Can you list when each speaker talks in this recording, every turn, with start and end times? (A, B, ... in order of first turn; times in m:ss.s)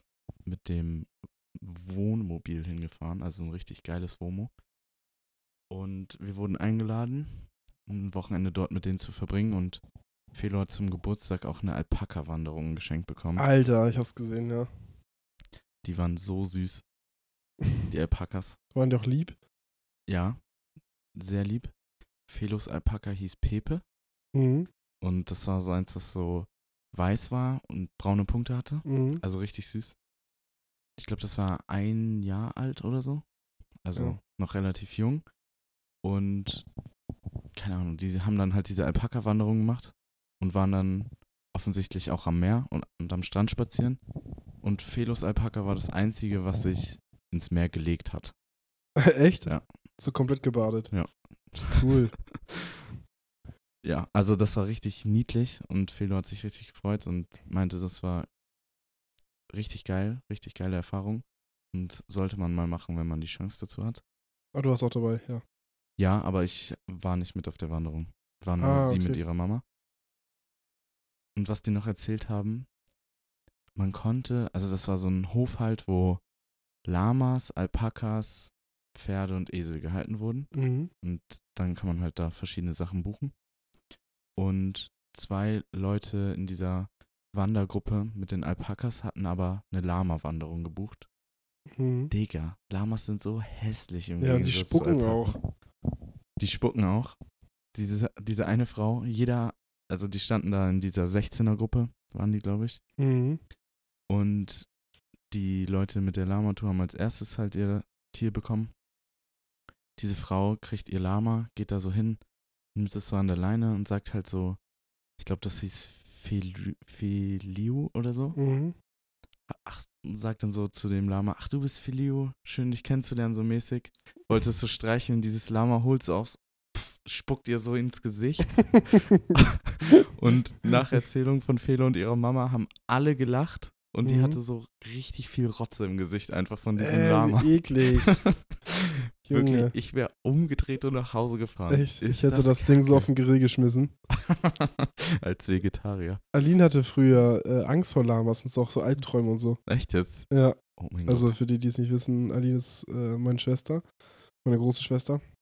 0:00.4-0:04.5 A
0:05.7-0:09.8 A
0:10.3-0:13.4 A
0:13.4-0:14.7 B
0:15.8-0:16.8 A
0:17.9-0:18.6 A
0:18.7-0:19.4 B
0:20.1-0:20.4 A
0:21.1-0:21.7 A
0:22.3-0:23.8 A
0:24.3-0:24.7 B
0:25.0-0:30.0 A
0:28.8-0:29.2 B
0:31.0-0:33.2 A
0:33.8-0:35.2 A
0:36.0-0:36.7 A
0:37.5-0:44.0 A
0:44.6-0:48.3 A
0:49.0-0:51.0 B
0:50.9-0:52.4 A
0:51.7-0:52.2 B
0:53.8-0:58.3 A
0:59.5-1:04.0 A
1:04.5-1:05.4 B
1:06.0-1:09.6 A
1:08.6-1:09.2 B
1:11.4-1:12.7 A
1:13.8-1:16.2 A
1:16.8-1:23.3 A
1:20.5-1:20.9 B
1:24.4-1:31.1 A
1:31.7-1:32.1 B
1:32.1-1:35.4 A
1:34.2-1:35.4 B
1:36.4-1:37.2 A
1:37.7-1:42.8 A
1:43.0-1:43.4 B
1:44.1-1:44.7 A
1:45.3-1:48.7 A
1:50.0-1:52.2 A
1:52.7-1:54.6 A
1:55.2-1:58.4 A
1:58.4-1:58.7 B
1:59.5-2:23.1 A
2:14.0-2:14.4 B
2:16.8-2:18.2 B
2:19.3-2:19.7 B
2:21.7-2:23.9 B
2:24.1-2:26.2 A
2:26.3-2:29.6 B
2:29.6-2:31.3 A
2:30.3-2:33.8 B
2:34.4-2:35.2 B